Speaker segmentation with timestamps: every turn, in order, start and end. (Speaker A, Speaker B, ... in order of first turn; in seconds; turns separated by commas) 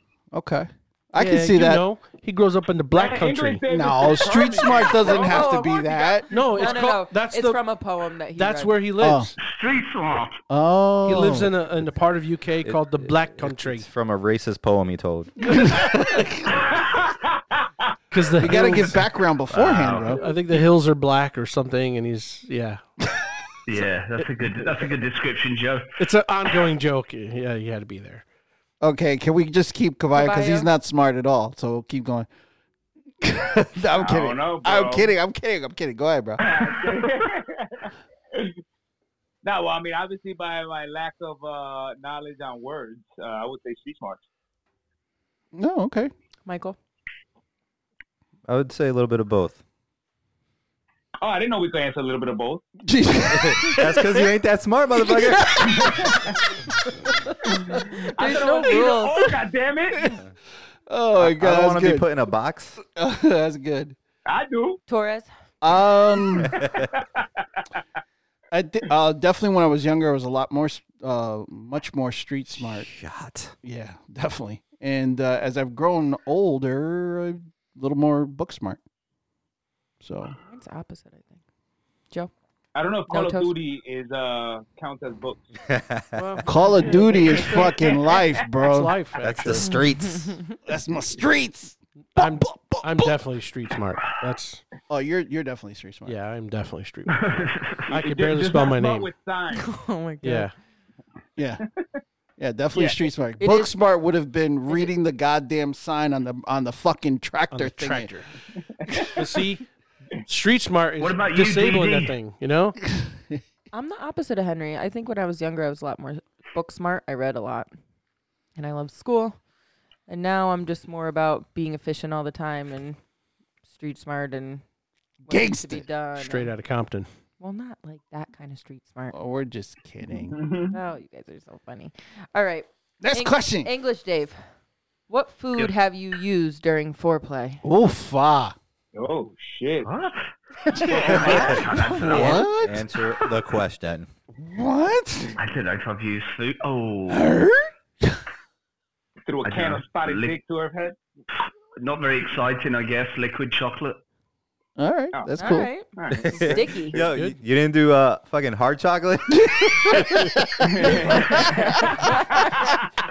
Speaker A: 0.3-1.8, Speaker B: 1.2-3.6, Speaker C: 2.9-5.6, Speaker A: 3.7-6.3, Speaker D: 4.8-8.7, Speaker B: 6.3-7.6, Speaker B: 8.3-9.3, Speaker A: 9.0-9.3, Speaker E: 9.4-10.4, Speaker A: 10.5-11.5, Speaker B: 11.0-13.8, Speaker F: 12.6-15.3, Speaker A: 15.4-16.5, Speaker C: 16.7-17.1, Speaker B: 18.1-19.1, Speaker A: 18.4-20.2, Speaker E: 19.5-20.2, Speaker B: 20.2-22.8, Speaker E: 23.6-25.9, Speaker B: 26.0-28.2, Speaker A: 28.8-32.3, Speaker D: 30.1-30.7, Speaker A: 33.2-36.4, Speaker C: 33.9-35.1, Speaker C: 36.4-38.5, Speaker C: 39.4-44.2, Speaker A: 45.5-46.1, Speaker D: 46.4-46.8, Speaker F: 48.5-49.6, Speaker C: 51.2-52.6, Speaker A: 52.8-54.2, Speaker F: 53.3-55.9, Speaker A: 55.0-55.9, Speaker C: 55.6-56.4, Speaker C: 57.6-60.1, Speaker D: 58.1-59.3, Speaker A: 60.9-62.1, Speaker F: 61.2-62.8, Speaker A: 62.8-64.0, Speaker C: 64.2-64.8, Speaker D: 64.9-65.3, Speaker A: 65.6-66.6, Speaker C: 66.3-67.2, Speaker F: 66.4-66.8, Speaker A: 68.5-72.9, Speaker F: 72.6-73.5, Speaker A: 73.6-78.8, Speaker A: 80.0-80.3, Speaker D: 80.4-81.4, Speaker C: 82.7-85.5, Speaker D: 83.1-83.5, Speaker F: 85.6-86.5, Speaker B: 86.2-87.7, Speaker A: 86.4-89.0, Speaker C: 87.3-88.2, Speaker B: 88.6-89.7, Speaker F: 89.2-90.4, Speaker D: 89.6-90.5, Speaker A: 90.7-93.2, Speaker B: 92.1-94.6, Speaker A: 94.9-96.2, Speaker B: 96.0-97.3, Speaker E: 97.1-97.8, Speaker B: 97.9-99.1, Speaker C: 97.9-99.7, Speaker D: 99.5-100.5, Speaker B: 100.2-100.5, Speaker A: 101.4-101.6, Speaker A: 102.4-108.1, Speaker D: 103.4-103.7, Speaker B: 107.5-108.3, Speaker C: 108.9-109.2, Speaker B: 109.2-109.6, Speaker B: 110.3-112.8, Speaker E: 111.0-112.1, Speaker A: 112.9-113.4, Speaker D: 113.7-117.7, Speaker D: 118.5-119.4, Speaker D: 120.1-123.0, Speaker D: 123.7-124.6, Speaker D: 125.2-126.5, Speaker A: 125.3-125.8, Speaker B: 126.2-127.1, Speaker D: 127.4-129.1, Speaker A: 129.1-130.4, Speaker C: 130.2-130.7, Speaker D: 130.7-134.4, Speaker A: 133.0-133.7, Speaker D: 135.1-137.6, Speaker A: 137.6-138.6, Speaker C: 138.9-139.9, Speaker E: 139.8-142.5, Speaker A: 140.7-142.8, Speaker C: 140.8-141.7, Speaker F: 142.2-144.1, Speaker A: 144.3-145.3, Speaker E: 145.4-147.3, Speaker A: 147.1-148.2, Speaker C: 149.3-151.0, Speaker E: 149.4-150.3, Speaker E: 151.8-154.0, Speaker A: 154.8-155.7, Speaker C: 155.1-157.1, Speaker D: 155.3-157.0, Speaker F: 156.2-160.3, Speaker A: 159.4-161.8, Speaker C: 160.7-162.8, Speaker D: 162.0-162.4